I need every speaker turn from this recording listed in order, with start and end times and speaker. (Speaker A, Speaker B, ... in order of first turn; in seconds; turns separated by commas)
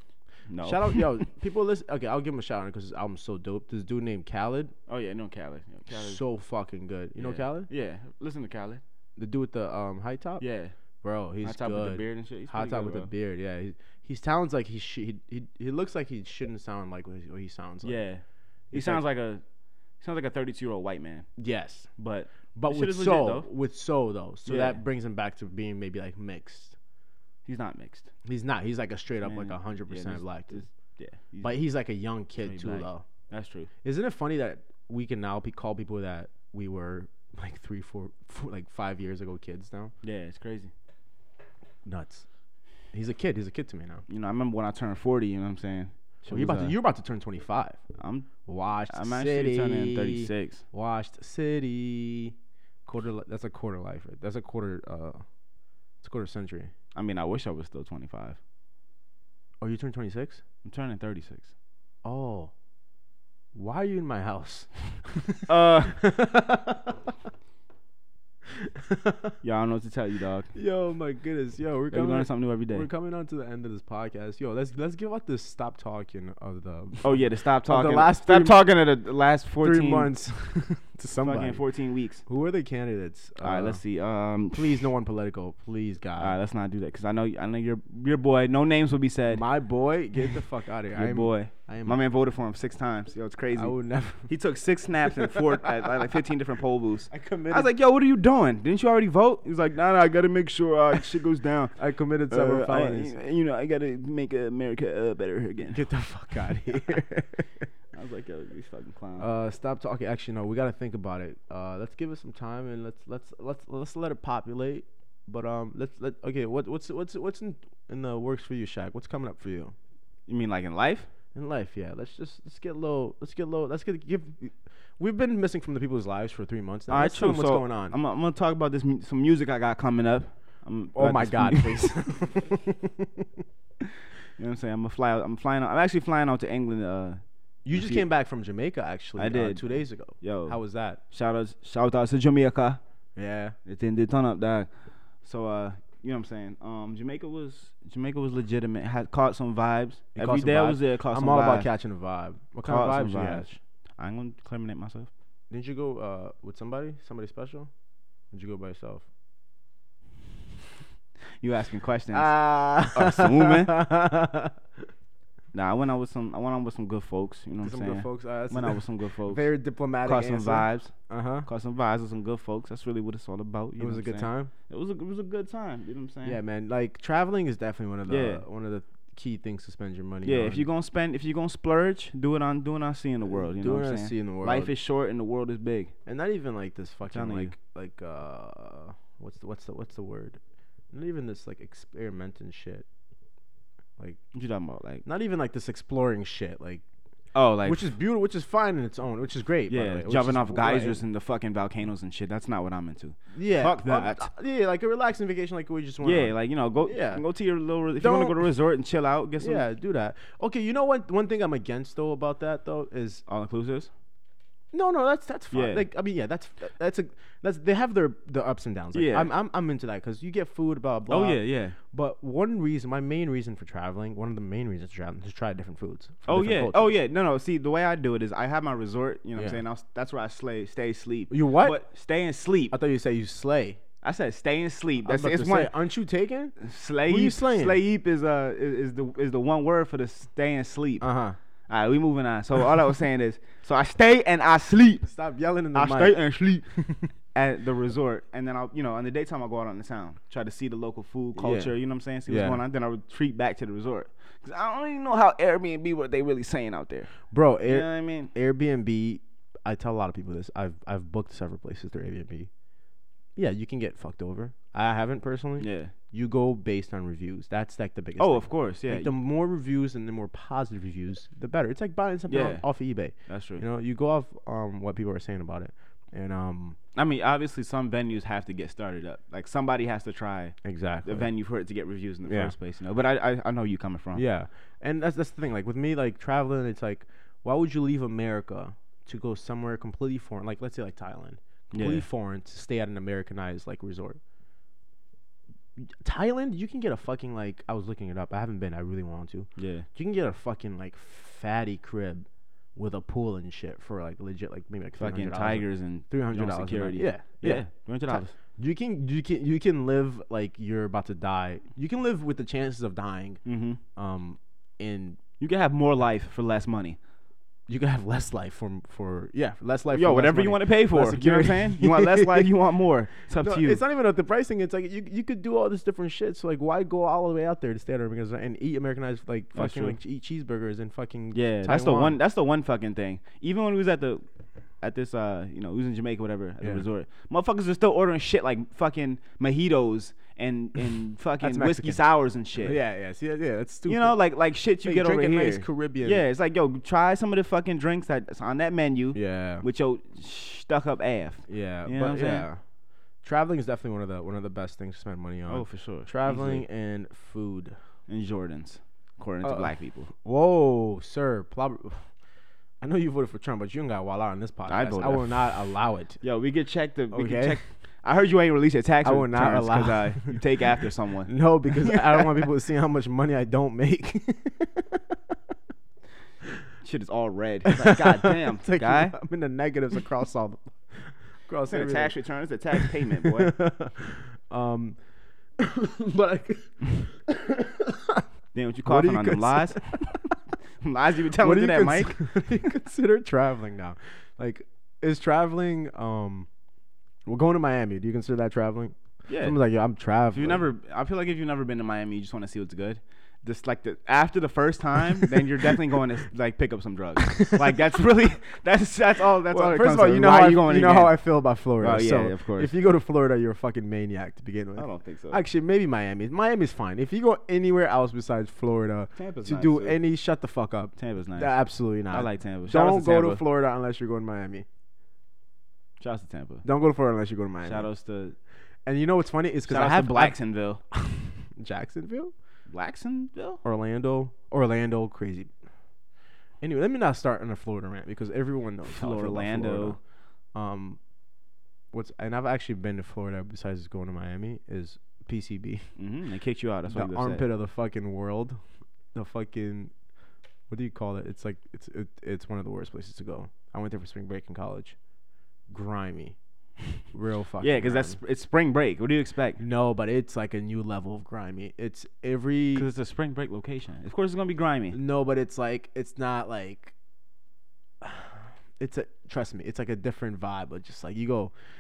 Speaker A: 0.5-1.2, Speaker B: 0.6-4.7, Speaker A: 4.9-6.2, Speaker B: 5.9-7.7, Speaker A: 7.2-8.8, Speaker B: 9.2-10.4, Speaker A: 10.4-10.8, Speaker B: 11.0-18.0, Speaker A: 11.4-13.1, Speaker A: 17.8-19.4, Speaker B: 18.7-19.0, Speaker A: 20.0-21.3, Speaker B: 21.4-21.9, Speaker A: 22.0-23.5, Speaker B: 22.6-26.8, Speaker A: 24.4-24.8, Speaker A: 27.5-28.1, Speaker B: 28.2-30.6, Speaker A: 29.2-31.6, Speaker B: 31.4-33.0, Speaker A: 32.4-33.7, Speaker B: 33.8-39.9, Speaker A: 40.0-40.7, Speaker B: 41.9-42.2, Speaker B: 42.9-44.0, Speaker A: 44.1-46.7, Speaker B: 46.3-47.8, Speaker A: 48.0-48.3, Speaker B: 48.5-52.4, Speaker A: 48.9-50.6, Speaker B: 52.9-55.2, Speaker B: 56.0-56.7, Speaker A: 57.0-58.4, Speaker B: 59.6-60.4, Speaker A: 60.6-61.5, Speaker B: 62.0-62.5, Speaker B: 63.5-67.0, Speaker A: 65.5-66.0, Speaker B: 68.5-69.4, Speaker A: 69.4-70.5, Speaker B: 70.5-78.7, Speaker A: 71.9-72.9, Speaker A: 77.0-80.1, Speaker B: 79.6-81.6, Speaker A: 81.2-82.2, Speaker B: 82.3-83.8, Speaker A: 83.4-84.9, Speaker B: 84.5-86.4, Speaker A: 86.2-89.5, Speaker B: 89.3-92.0, Speaker A: 90.9-101.7, Speaker B: 93.5-94.3, Speaker B: 95.2-95.9, Speaker B: 97.1-97.7, Speaker B: 101.8-103.2, Speaker A: 102.3-105.8, Speaker B: 105.7-107.7, Speaker A: 107.9-109.3, Speaker B: 109.2-119.7, Speaker A: 120.3-121.1, Speaker B: 121.3-128.0, Speaker A: 126.9-132.1, Speaker B: 131.0-133.3, Speaker A: 134.4-137.2, Speaker B: 137.7-141.0, Speaker A: 137.7-138.1, Speaker A: 139.2-140.6, Speaker A: 141.1-142.8, Speaker B: 143.2-143.6, Speaker A: 143.7-144.7, Speaker A: 145.2-151.7, Speaker B: 150.2-153.6, Speaker A: 152.7-155.1, Speaker B: 155.5-157.7, Speaker B: 158.3-159.1, Speaker A: 161.4-162.4, Speaker B: 162.1-164.6, Speaker A: 162.9-163.8, Speaker A: 165.5-169.5, Speaker B: 167.6-171.5, Speaker A: 170.0-170.9, Speaker A: 171.5-176.4, Speaker B: 173.8-174.5, Speaker B: 176.2-180.7, Speaker A: 178.1-178.4, Speaker A: 180.2-185.9, Speaker B: 183.3-184.7, Speaker B: 186.1-190.4, Speaker A: 187.1-187.5, Speaker B: 190.9-192.9, Speaker A: 194.3-195.0, Speaker B: 195.1-196.8, Speaker A: 197.3-197.9, Speaker B: 197.7-201.0, Speaker A: 199.7-204.3, Speaker B: 203.3-206.3, Speaker A: 206.0-209.7, Speaker B: 206.9-207.2, Speaker B: 208.0-208.5, Speaker B: 209.4-213.2, Speaker A: 213.3-213.9, Speaker B: 214.7-227.0, Speaker A: 215.5-215.9, Speaker A: 218.9-219.3, Speaker A: 221.1-221.8, Speaker A: 226.3-232.8, Speaker B: 231.3-231.8, Speaker B: 232.7-233.8, Speaker A: 234.0-235.7, Speaker B: 235.0-236.6, Speaker A: 236.6-241.1, Speaker B: 237.1-237.8, Speaker B: 241.0-241.4, Speaker A: 241.7-245.1, Speaker B: 245.1-246.2, Speaker A: 245.7-246.7, Speaker B: 246.7-247.1, Speaker A: 247.3-258.3, Speaker B: 251.3-251.7, Speaker B: 252.3-252.6, Speaker B: 257.3-262.5, Speaker B: 263.4-276.8, Speaker A: 265.6-265.9, Speaker A: 268.2-269.1, Speaker A: 272.3-272.6, Speaker A: 273.3-273.6, Speaker A: 277.0-284.2, Speaker B: 280.6-281.3, Speaker B: 282.3-282.5, Speaker B: 284.1-294.2, Speaker A: 291.7-292.1, Speaker B: 295.8-313.4, Speaker A: 299.6-299.9, Speaker A: 305.0-308.3, Speaker A: 313.4-313.8, Speaker B: 313.9-315.2, Speaker A: 315.4-317.0, Speaker B: 317.7-322.5, Speaker A: 319.9-323.8, Speaker B: 323.3-332.2, Speaker A: 329.5-330.0, Speaker A: 331.3-334.2, Speaker A: 334.8-342.8, Speaker B: 341.4-342.0, Speaker B: 342.6-344.2, Speaker A: 343.9-352.5, Speaker B: 344.8-346.2, Speaker B: 349.1-349.6, Speaker B: 351.5-352.6, Speaker B: 353.2-357.8, Speaker A: 355.5-356.6, Speaker A: 358.1-360.1, Speaker B: 359.4-362.0, Speaker B: 362.8-366.2, Speaker A: 364.7-365.5, Speaker A: 366.2-372.4, Speaker B: 367.1-367.6, Speaker B: 369.0-370.4, Speaker B: 371.3-375.4, Speaker A: 376.8-379.2, Speaker B: 377.7-382.1, Speaker A: 381.7-383.6, Speaker B: 382.7-385.0, Speaker B: 385.6-388.2, Speaker A: 388.5-390.2, Speaker B: 388.9-390.3, Speaker A: 390.8-392.7, Speaker B: 391.3-396.5, Speaker B: 397.3-400.6, Speaker A: 399.3-399.6, Speaker A: 400.3-411.2, Speaker B: 405.2-405.8, Speaker B: 407.2-407.8, Speaker B: 409.2-424.7, Speaker A: 411.8-412.7, Speaker A: 414.8-415.4, Speaker A: 419.2-420.0, Speaker A: 421.0-421.6, Speaker A: 422.1-423.4, Speaker A: 426.0-426.6, Speaker B: 426.6-427.9, Speaker A: 427.6-428.4, Speaker B: 428.9-430.4, Speaker A: 429.7-430.8, Speaker B: 430.9-432.3, Speaker A: 432.7-433.6, Speaker B: 433.6-435.5, Speaker B: 436.6-440.0, Speaker A: 438.9-440.0, Speaker B: 440.6-441.0, Speaker B: 441.9-445.9, Speaker A: 446.0-447.4, Speaker B: 446.9-448.6, Speaker B: 449.1-449.9, Speaker B: 450.7-455.0, Speaker B: 455.7-456.4, Speaker B: 457.1-458.2, Speaker A: 457.6-459.6, Speaker B: 459.6-462.9, Speaker A: 462.7-465.0, Speaker B: 464.9-466.9, Speaker B: 468.0-471.5